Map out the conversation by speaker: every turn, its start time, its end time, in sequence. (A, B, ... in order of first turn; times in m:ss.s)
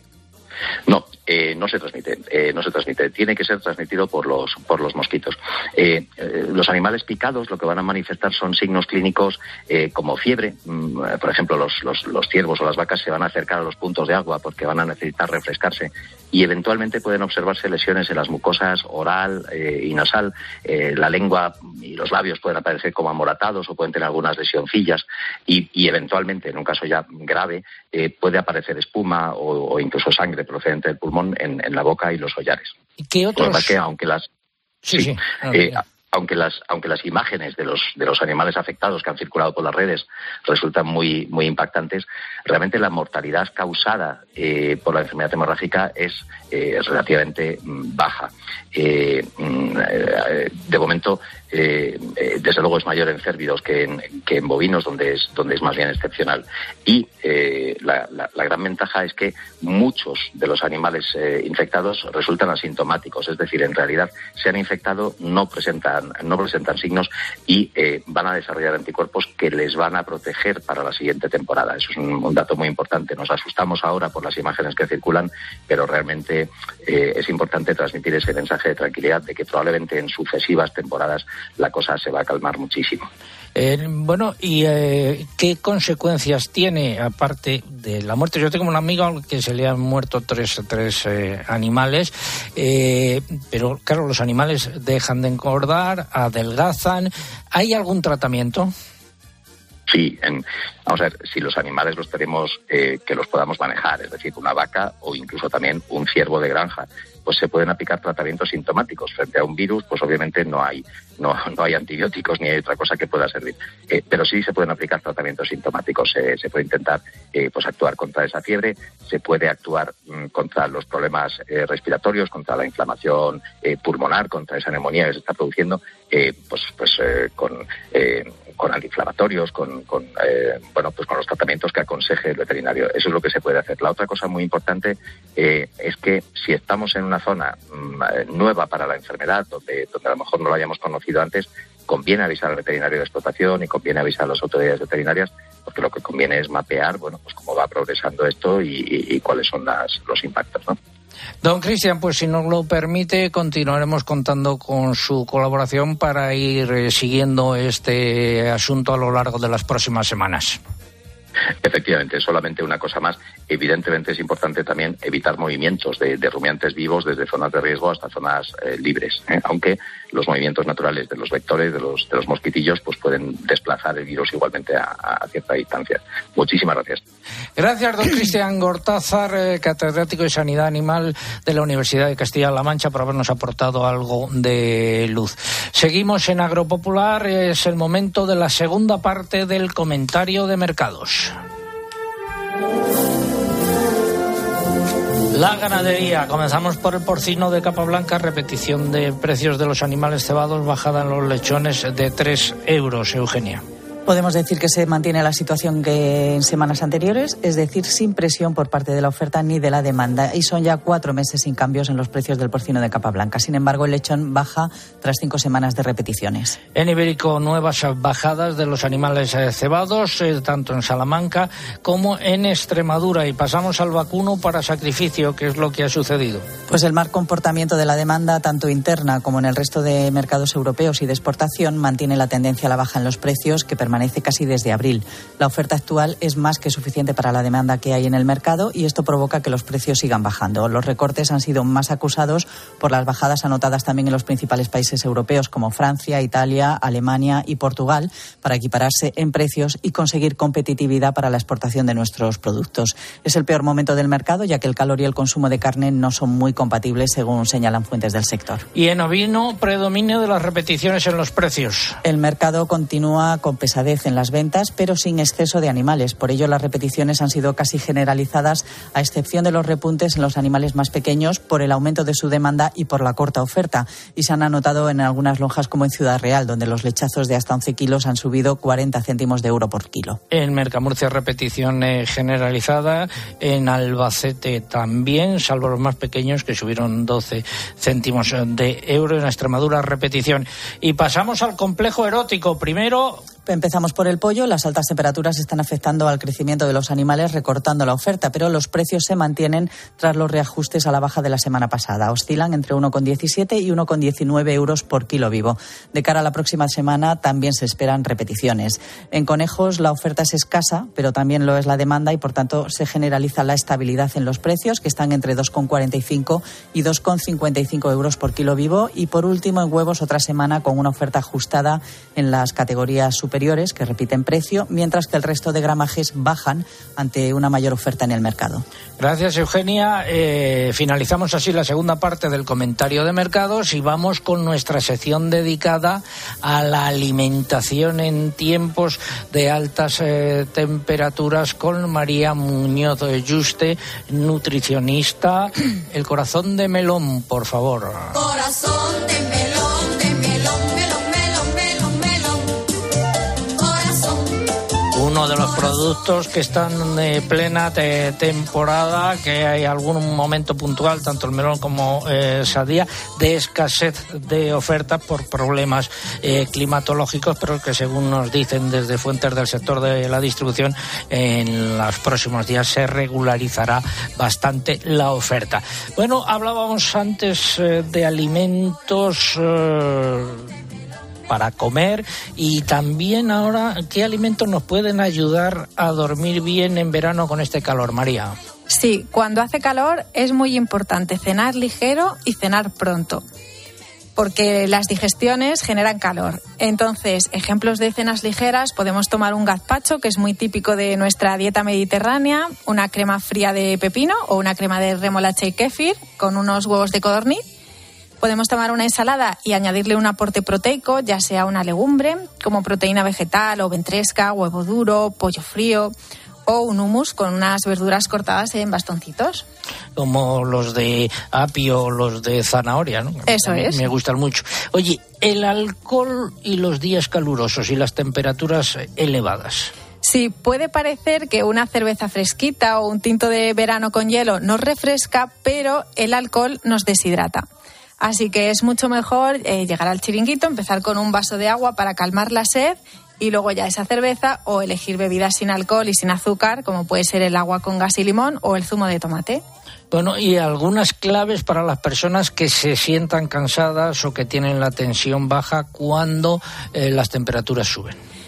0:00.9-0:32.7 A
0:33.0-0:33.7 B
0:33.4-0:34.3 A
0:34.9-0:35.8 B
0:34.9-1:23.1 A
1:23.6-1:38.7 B
1:39.9-2:30.8 A
2:31.4-2:40.6 B
2:41.6-2:57.0 A
2:57.6-3:11.4 B
3:15.3-3:23.6 B
3:24.1-3:36.6 C
3:36.8-3:46.5 B
3:46.7-4:18.6 C
4:18.8-4:22.0 B
4:22.0-4:40.2 C
4:40.3-4:53.2 B
4:53.5-5:28.6 C
5:29.0-5:48.2 B
5:48.1-5:52.6 D
5:53.6-5:54.4 D
5:54.9-6:20.5 B
6:21.3-6:28.3 B
6:28.7-6:33.2 E
6:34.2-6:47.4 E
6:48.2-6:55.9 E
6:56.5-6:59.4 E
7:00.0-7:09.7 B
7:03.3-7:03.8 E
7:10.0-7:17.4 E
7:18.0-7:29.4 E
7:29.9-7:38.0 B